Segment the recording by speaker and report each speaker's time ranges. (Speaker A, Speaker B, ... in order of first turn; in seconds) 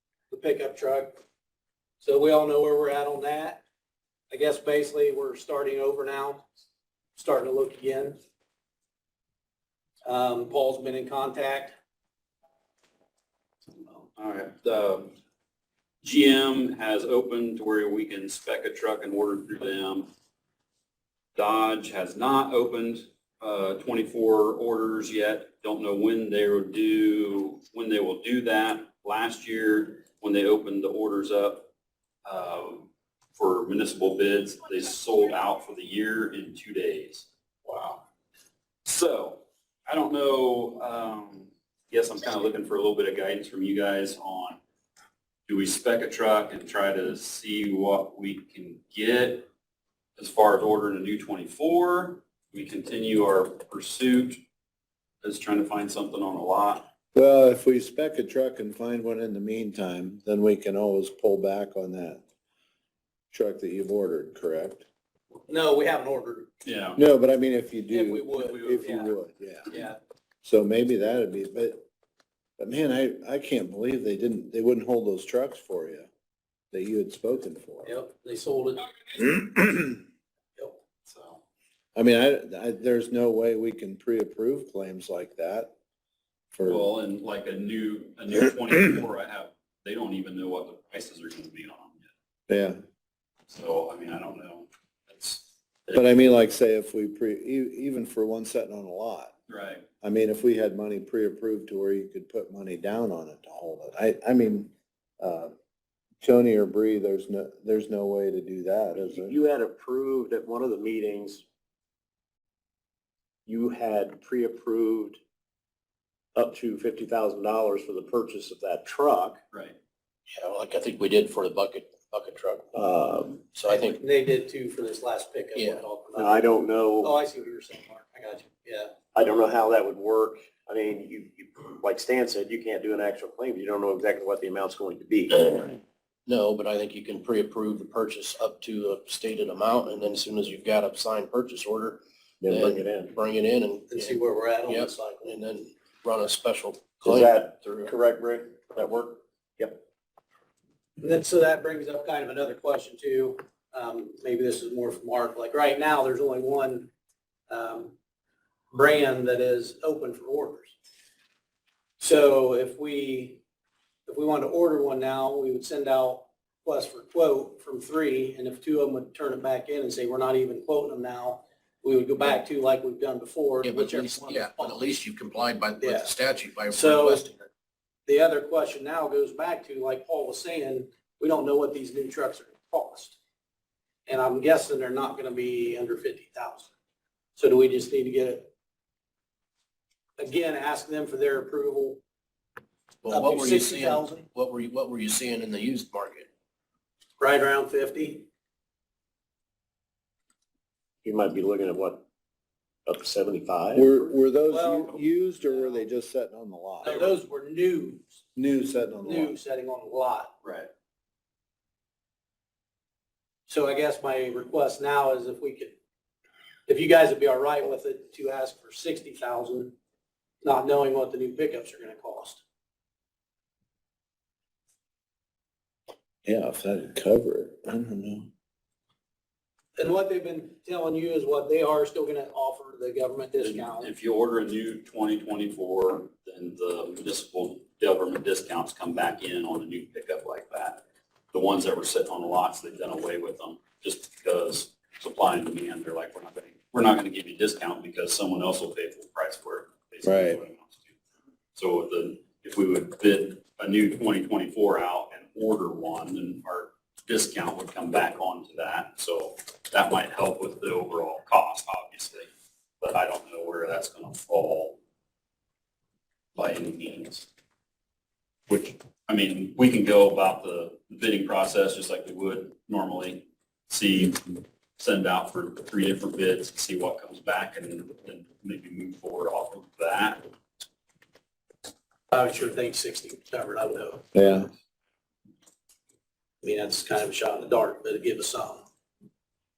Speaker A: 0.3-1.2, 2.0-3.6, 4.3-6.4, 7.2-8.2, 10.0-11.7, 65.5-66.5, 67.9-69.1, 69.7-70.0, 77.8-79.2, 123.7-126.5, 127.0-128.9, 143.9-145.2, 151.0-156.9, 157.5-157.9, 158.7-160.7, 162.0-163.4, 164.1-174.8, 175.8-176.1, 176.7-177.3, 178.1-183.2, 184.1-186.7, 187.3-188.5, 190.2-192.0, 193.1-194.3, 197.2-198.3, 204.5-205.8, 206.8-208.1, 209.0-210.3, 213.5-215.7, 216.7-219.8, 220.4-222.4, 229.8-233.9, 282.1-284.0, 286.4-288.6
Speaker B: 13.9-15.1, 16.0-20.1, 21.4-31.7, 32.2-38.0, 38.9-44.6, 45.5-49.5, 50.2-54.4, 55.2-56.9, 66.6-67.0, 81.1-81.4, 86.6-92.1, 93.5-96.1, 99.5-99.8, 119.5-119.8, 210.4-210.7, 233.4-240.8, 241.3-250.9, 251.5-262.3, 262.8-264.8, 266.4-267.3, 268.5-280.2
Speaker C: 57.1-62.2, 63.3-64.8, 67.0-69.7, 70.4-71.8, 72.6-76.1, 76.7-78.0, 79.2-80.0, 82.0-85.7, 86.5-86.9, 92.5-92.8, 95.9-99.3, 100.0-105.5, 106.2-109.3, 203.7-207.1, 208.3-209.4, 226.2-228.3, 250.0-250.4, 284.1-284.5
Speaker D: 109.0-111.4, 113.5-115.2, 116.3-119.4, 122.7-123.4, 126.2-127.1, 129.1-135.8, 142.4-143.1, 147.0-149.8, 201.0-202.0, 202.8-203.9
Speaker E: 120.3-122.7, 123.4-124.0, 125.5-125.8, 136.3-147.9, 173.6-177.5, 193.0-196.3